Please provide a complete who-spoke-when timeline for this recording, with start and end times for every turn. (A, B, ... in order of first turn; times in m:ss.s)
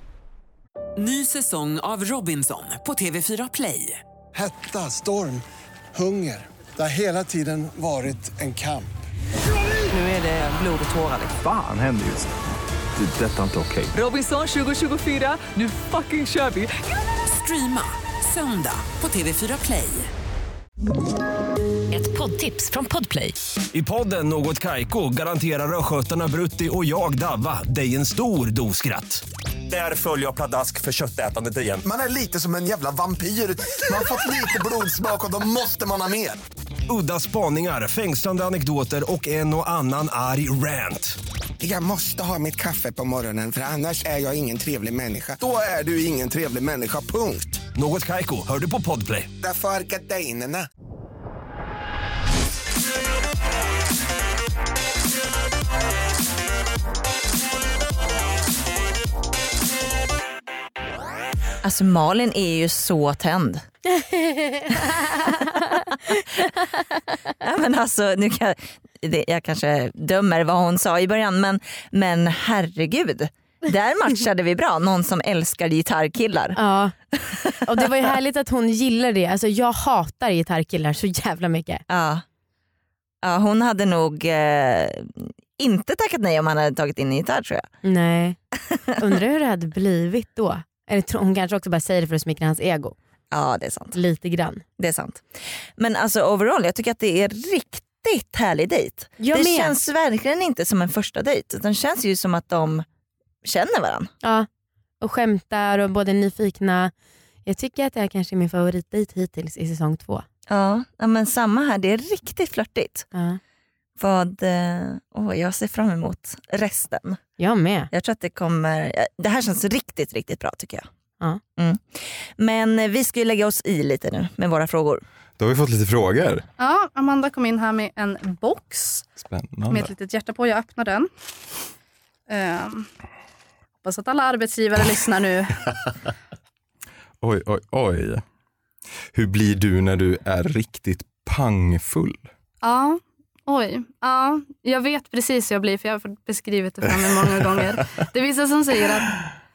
0:01.0-0:04.0 A
0:04.3-0:09.0 B
0:09.9-0:11.3 A
0:11.3-0:12.3 C
0:13.0-0:14.0 C
0:13.9-0:20.1 A
0:21.9-0:23.4 A
0:23.7-0:31.9 D
0:32.1-0:32.9 E
0:35.9-0:36.3 E
0:36.9-0:41.2 D
0:41.6-0:47.6 E
0:47.7-0:49.3 D
0:49.4-0:50.7 E
1:01.6-1:03.6 F
1:04.0-1:04.7 G
1:07.4-1:16.6 F
1:16.6-1:17.0 G
1:17.6-1:21.8 G
1:21.9-1:22.2 F
1:23.2-1:27.7 F
1:27.8-1:28.4 G
1:29.0-1:33.0 G
1:33.3-1:34.0 F
1:33.9-1:34.6 G
1:34.8-1:35.2 F
1:35.8-1:42.8 F
1:39.2-1:39.8 G
1:43.4-1:44.1 F
1:45.0-1:46.9 G
1:47.5-1:50.2 G
1:50.5-1:53.1 F
1:53.1-1:53.4 G
1:54.0-1:57.2 F
1:57.4-1:57.9 G
1:57.9-2:00.9 F
2:01.6-2:05.0 F
2:05.4-2:06.5 H
2:06.6-2:09.1 I
2:09.2-2:09.9 H
2:09.7-2:11.1 I
2:12.3-2:12.9 I
2:13.8-2:15.7 I
2:17.2-2:18.2 H
2:19.1-2:22.3 H
2:22.6-2:29.2 I